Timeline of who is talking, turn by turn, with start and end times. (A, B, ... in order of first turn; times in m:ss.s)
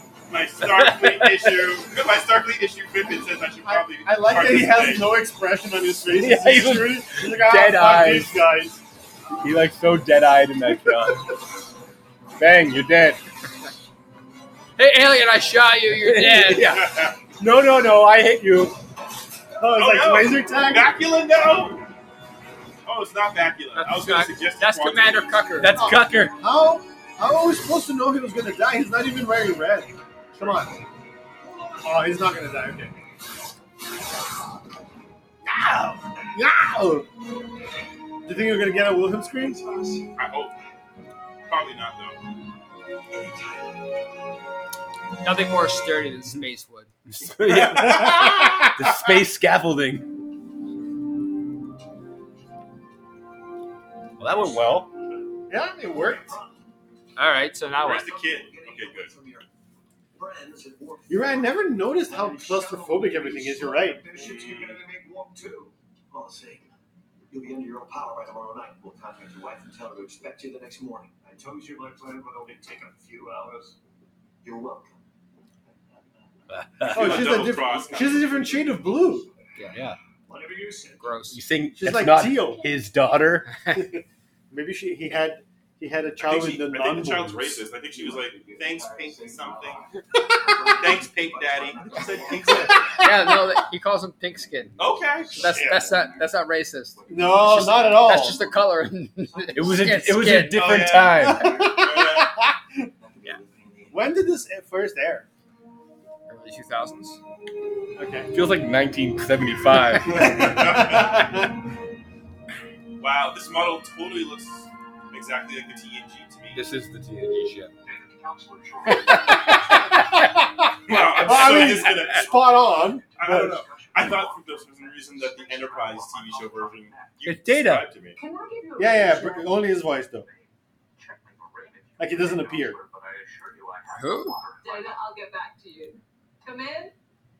0:00.3-0:05.2 A
0:00.6-0:01.7 B
0:03.6-0:08.8 C
0:06.1-0:08.5 B
0:09.3-0:11.3 B
0:12.4-0:13.2 B
0:14.8-0:16.8 D
0:16.0-0:18.8 B
0:16.8-0:17.2 A
0:19.6-0:21.0 C
0:19.7-0:21.8 A
0:22.8-0:25.5 A
0:23.7-0:25.8 D
0:25.6-0:26.4 B
0:25.7-0:30.8 C
0:30.4-0:30.6 A
0:31.4-0:32.1 E
0:31.8-0:33.0 C
0:35.5-0:37.1 C
0:38.2-0:39.6 C
0:39.3-0:40.2 E
0:40.2-0:40.6 A
0:41.5-0:42.2 A
0:43.1-0:43.8 E
0:45.2-0:46.9 D
0:47.1-0:50.1 B
0:47.4-0:49.0 A
0:47.8-0:48.7 C
0:54.2-0:54.9 B
0:55.5-0:56.4 C
0:55.9-0:56.6 E
0:57.2-0:58.1 D
0:57.8-0:59.1 A
0:57.8-0:59.5 E
1:00.1-1:06.7 E
1:01.1-1:04.1 C
1:04.1-1:04.8 A
1:07.3-1:13.8 E
1:14.4-1:15.0 E
1:15.6-1:19.7 E
1:16.5-1:17.3 B
1:16.9-1:18.3 A
1:16.9-1:19.3 C
1:19.6-1:19.8 D
1:19.7-1:20.0 B
1:20.3-1:21.1 E
1:21.0-1:21.4 D
1:21.3-1:23.6 B
1:21.7-1:22.7 C
1:23.7-1:27.6 C
1:26.2-1:29.8 A
1:27.8-1:33.0 E
1:30.8-1:33.0 A
1:32.4-1:33.4 C
1:33.0-1:34.8 D
1:34.8-1:40.2 E
1:34.8-1:35.5 A
1:35.3-1:40.8 D
1:35.4-1:35.9 C
1:37.1-1:38.4 C
1:39.5-1:41.6 B
1:40.5-1:42.4 A
1:40.9-1:42.0 E
1:41.1-1:42.8 C
1:42.8-1:44.1 E
1:43.9-1:45.3 C
1:46.3-1:47.2 D
1:48.0-1:48.3 C
1:48.3-1:50.9 B
1:50.1-1:51.5 C
1:50.1-1:51.3 A
1:53.0-1:56.6 A
1:56.5-1:57.7 B
1:57.8-1:59.6 E
1:59.1-2:03.6 C
2:00.9-2:08.2 A
2:01.3-2:07.2 E
2:07.2-2:07.9 B
2:08.1-2:09.6 F
2:08.8-2:10.3 C
2:10.1-2:15.0 E
2:12.0-2:12.8 C
2:13.9-2:14.4 D
2:14.6-2:16.9 F